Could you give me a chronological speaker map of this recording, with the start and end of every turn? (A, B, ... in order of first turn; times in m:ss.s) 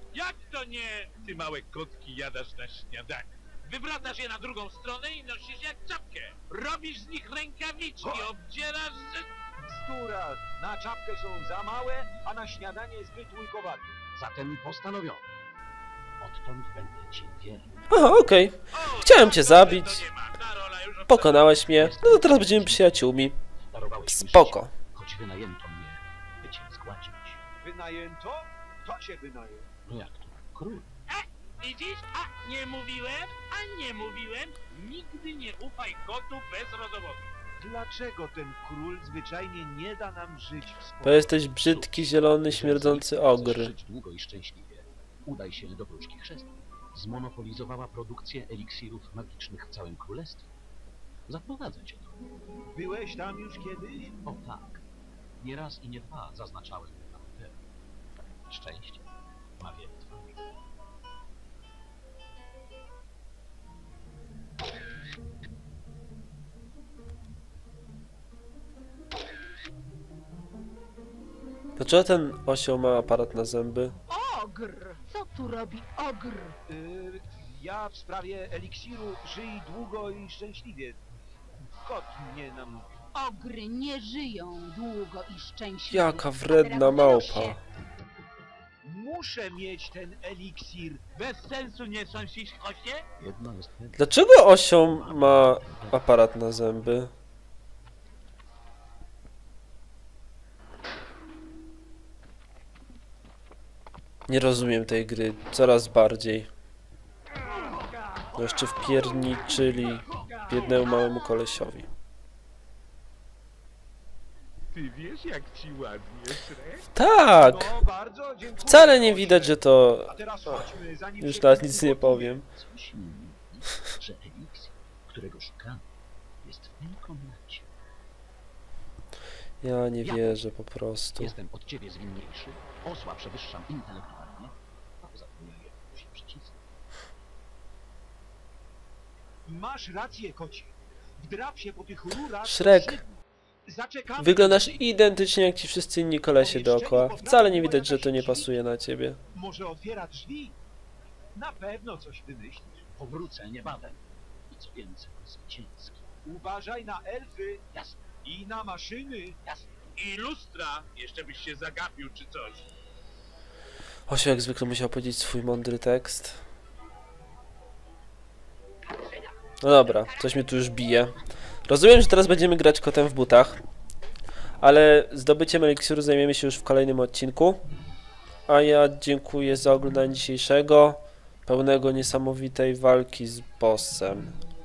0:00.1-0:09.3 A
0:09.6-0:14.0 B
0:14.2-0:15.2 C
0:16.2-0:17.8 C
0:17.9-0:20.1 D
0:18.7-0:21.6 A
0:21.1-0:23.4 D
0:21.7-0:23.0 C
0:23.7-0:27.4 C
0:24.1-0:24.7 D
0:27.6-0:29.7 B
0:29.9-0:30.9 C
0:31.1-0:37.3 A
0:37.6-0:41.3 B
0:41.0-0:43.7 D
0:41.6-0:50.5 C
0:51.3-0:52.2 C
0:52.7-0:54.2 B
0:54.2-0:54.8 C
0:55.4-0:57.6 C
0:58.5-1:00.4 C
1:11.8-1:13.9 D
1:14.1-1:16.6 E
1:16.7-1:21.0 B
1:21.8-1:23.0 B
1:23.1-1:27.6 E
1:25.9-1:27.6 D
1:28.8-1:31.0 B
1:31.1-1:33.1 A
1:33.2-1:34.0 C
1:34.0-1:37.1 D
1:34.9-1:36.0 C
1:44.3-1:46.5 D
1:48.3-1:51.9 D
1:54.7-1:56.9 A
1:56.9-1:57.8 D
1:57.4-2:02.3 B
1:58.6-2:00.2 D
2:01.2-2:02.5 D
2:02.5-2:05.9 C
2:06.4-2:07.7 C
2:09.6-2:11.3 D
2:10.0-2:10.4 C
2:11.2-2:16.6 C
2:19.4-2:23.0 B
2:22.4-2:23.0 D
2:23.6-2:24.7 B
2:24.2-2:29.2 D
2:26.4-2:28.5 B
2:29.3-2:30.6 B
2:31.3-2:32.8 B
2:32.9-2:36.0 C
2:36.2-2:37.6 B
2:37.7-2:38.1 C
2:38.2-2:39.4 B
2:39.4-2:39.7 C
2:40.0-2:42.7 A
2:44.1-2:46.4 D
2:49.6-2:53.6 D
2:54.6-2:57.6 D
2:58.5-3:04.4 D